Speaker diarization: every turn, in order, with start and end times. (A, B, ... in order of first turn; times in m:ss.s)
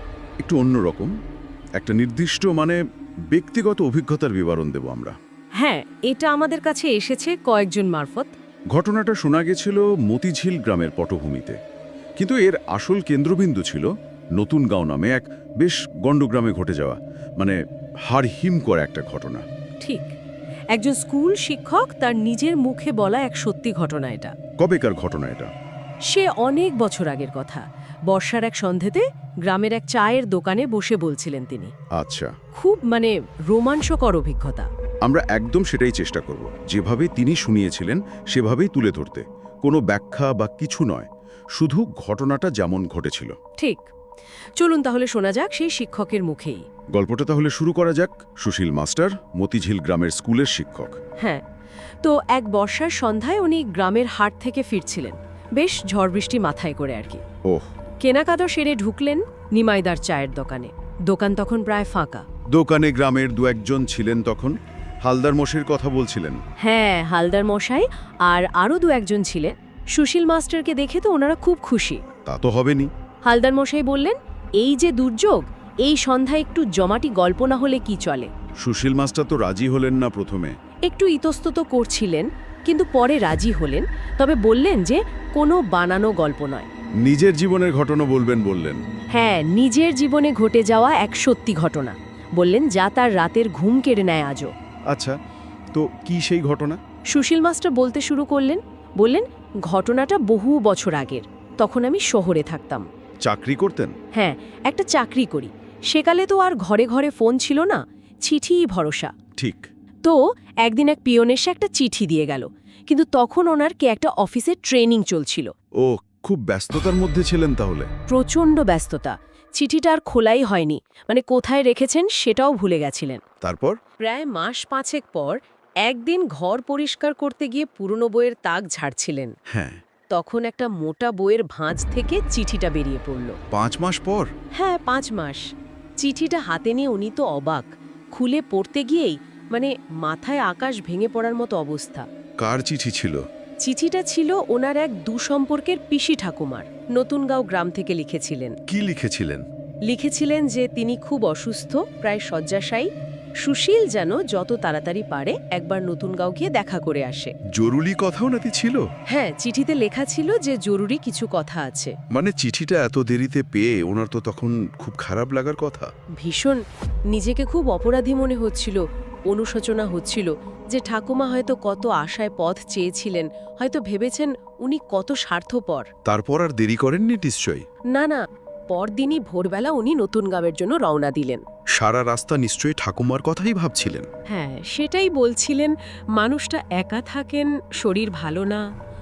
0:00.4-0:01.1 A
0:01.8-0:02.8 A
0:03.3-0:05.2 A
0:05.6-0:08.3 B
0:08.7-0:11.6 A
0:12.2-0:19.4 A
0:19.8-0:20.2 B
0:20.7-0:24.3 B
0:24.6-0:25.5 A
0:26.1-0:31.7 B
0:31.9-0:32.3 A
0:32.5-0:34.7 B
0:35.0-0:43.4 A
0:43.6-0:43.9 B
0:44.6-0:46.6 B
0:46.9-0:51.0 A
0:52.0-0:57.2 B
0:58.0-1:02.2 B
1:02.5-1:06.4 A
1:06.6-1:12.0 B
1:12.2-1:12.9 A
1:13.2-1:18.3 B
1:18.6-1:20.6 A
1:20.8-1:26.7 B
1:27.0-1:28.8 A
1:29.1-1:34.5 B
1:34.9-1:35.2 A
1:35.7-1:36.8 A
1:37.1-1:42.8 B
1:43.2-1:43.9 A
1:44.1-1:49.1 B
1:49.4-1:49.7 A
1:50.0-1:55.5 B
1:55.8-1:57.9 A
1:58.1-2:03.2 B
2:03.4-2:03.8 A
2:04.0-2:09.3 B
2:09.5-2:09.8 A
2:10.1-2:13.4 B
2:13.5-2:14.3 A
2:14.5-2:15.4 B
2:16.0-2:22.1 B
2:22.4-2:23.2 A
2:23.6-2:28.6 B
2:28.7-2:29.5 A
2:29.9-2:32.9 B
2:33.4-2:37.3 B
2:37.5-2:38.8 A
2:39.1-2:42.0 B
2:42.1-2:45.9 A
2:46.2-2:55.9 B
2:56.1-2:57.6 A
2:57.9-3:01.4 B
3:01.8-3:04.1 A
3:04.3-3:08.7 B